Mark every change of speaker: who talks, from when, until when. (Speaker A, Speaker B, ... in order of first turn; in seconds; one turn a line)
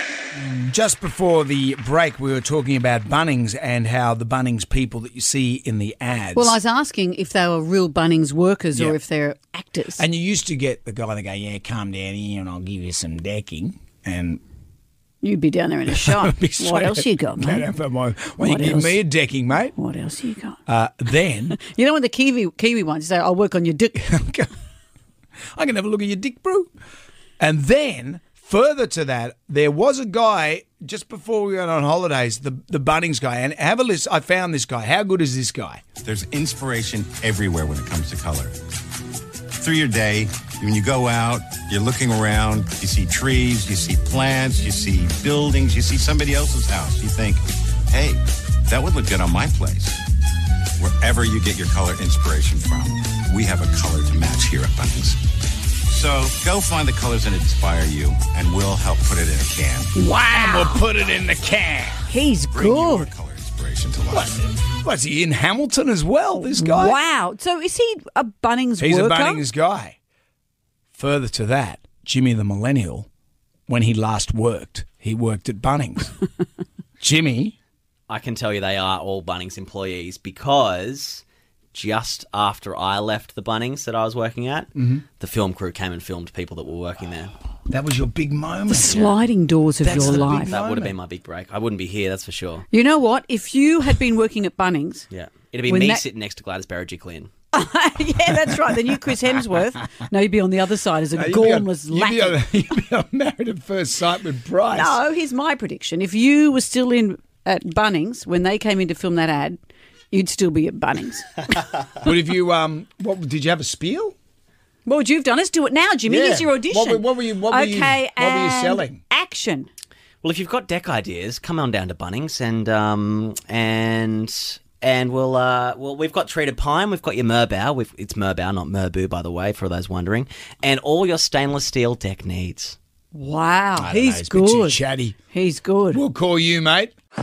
Speaker A: 0.4-6.6
Speaker B: 6.3-10.0
Speaker A: 8.7-9.0
Speaker A: 10.0-14.4
Speaker B: 15.2-17.7
Speaker A: 15.9-19.7
Speaker B: 18.4-19.0
Speaker B: 19.7-20.6
Speaker A: 20.7-21.6
Speaker B: 21.6-24.0
Speaker A: 24.0-24.5
Speaker A: 25.6-26.7
Speaker A: 27.4-35.9
Speaker C: 36.0-38.5
Speaker C: 39.6-50.0
Speaker C: 50.8-55.2
Speaker C: 55.9-59.9
Speaker B: 60.0-60.8
Speaker A: 60.0-62.1
Speaker B: 62.1-63.1
Speaker C: 62.5-64.4
Speaker A: 64.1-67.0
Speaker B: 66.4-69.4
Speaker A: 68.8-70.0
Speaker A: 71.0-73.1
Speaker A: 73.7-76.2
Speaker A: 77.0-77.5
Speaker D: 78.1-87.4
Speaker A: 84.8-85.0
Speaker A: 87.7-89.1
Speaker B: 88.7-90.6
Speaker A: 89.8-90.9
Speaker D: 89.9-92.7
Speaker B: 92.7-95.1
Speaker D: 95.1-97.3
Speaker B: 95.7-96.0
Speaker B: 97.5-102.4
Speaker A: 101.1-105.0
Speaker B: 104.7-109.6
Speaker B: 110.1-111.6
Speaker A: 112.0-114.2
Speaker B: 114.8-119.7
Speaker A: 116.0-119.0
Speaker D: 120.2-132.8
Speaker B: 133.1-134.8
Speaker A: 133.8-135.2
Speaker B: 135.3-136.0
Speaker A: 135.9-136.9